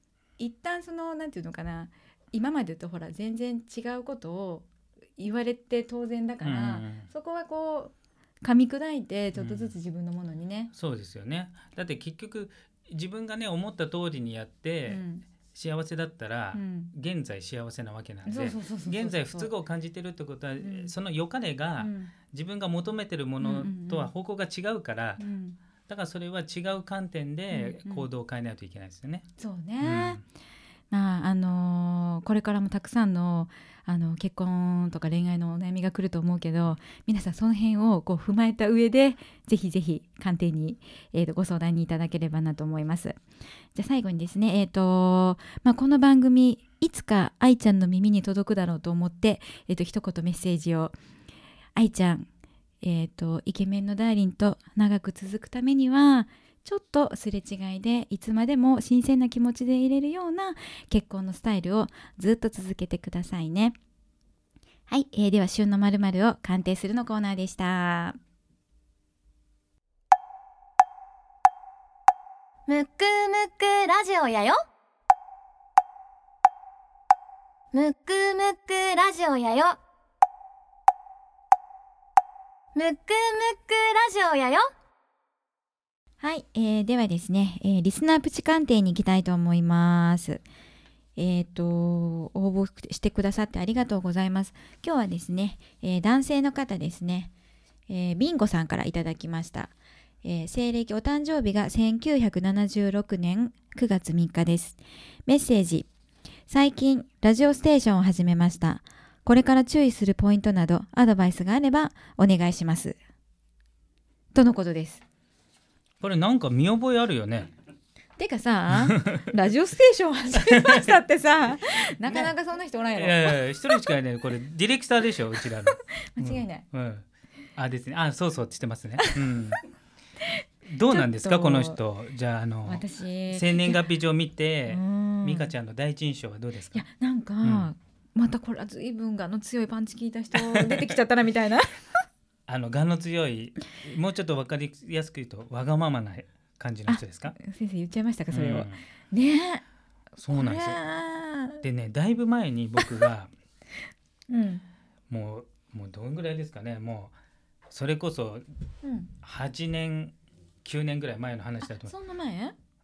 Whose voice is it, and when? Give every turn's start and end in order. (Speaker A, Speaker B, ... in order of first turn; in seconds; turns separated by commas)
Speaker A: 0.4-10.7, Speaker B: 6.4-7.1, Speaker B: 9.3-9.7, Speaker B: 10.7-25.2, Speaker A: 14.9-15.2, Speaker A: 16.5-16.9, Speaker A: 18.2-19.5, Speaker A: 20.6-20.9, Speaker A: 21.8-22.1, Speaker A: 23.4-24.1, Speaker A: 25.2-25.6, Speaker B: 25.9-29.3, Speaker A: 27.5-28.1, Speaker A: 29.4-30.2, Speaker B: 29.8-30.2, Speaker A: 30.9-43.2, Speaker A: 43.7-50.9, Speaker A: 51.7-52.3, Speaker A: 52.8-63.7, Speaker A: 64.9-68.2, Speaker C: 72.7-74.6, Speaker C: 77.7-79.8, Speaker C: 82.7-84.7, Speaker A: 86.2-90.4, Speaker A: 91.2-97.3, Speaker A: 97.9-99.7, Speaker A: 100.2-105.9, Speaker A: 106.5-113.0, Speaker A: 114.3-115.0, Speaker B: 116.0-117.5, Speaker A: 118.2-123.8, Speaker B: 118.8-119.2, Speaker B: 120.3-121.0, Speaker B: 122.0-122.3, Speaker B: 123.0-127.0, Speaker A: 126.0-126.6, Speaker B: 127.5-129.6, Speaker A: 130.2-131.8, Speaker B: 130.7-136.8, Speaker A: 132.6-133.8, Speaker A: 134.7-135.5, Speaker A: 136.7-141.9, Speaker B: 137.4-137.7, Speaker B: 140.3-140.9, Speaker B: 142.5-147.3, Speaker A: 146.9-149.6, Speaker B: 148.3-148.8, Speaker B: 150.2-150.8, Speaker A: 150.3-151.6, Speaker B: 151.6-153.3, Speaker A: 154.3-154.6, Speaker B: 155.1-157.1, Speaker B: 157.7-158.5, Speaker A: 158.8-159.1, Speaker B: 159.2-161.9, Speaker A: 161.6-162.5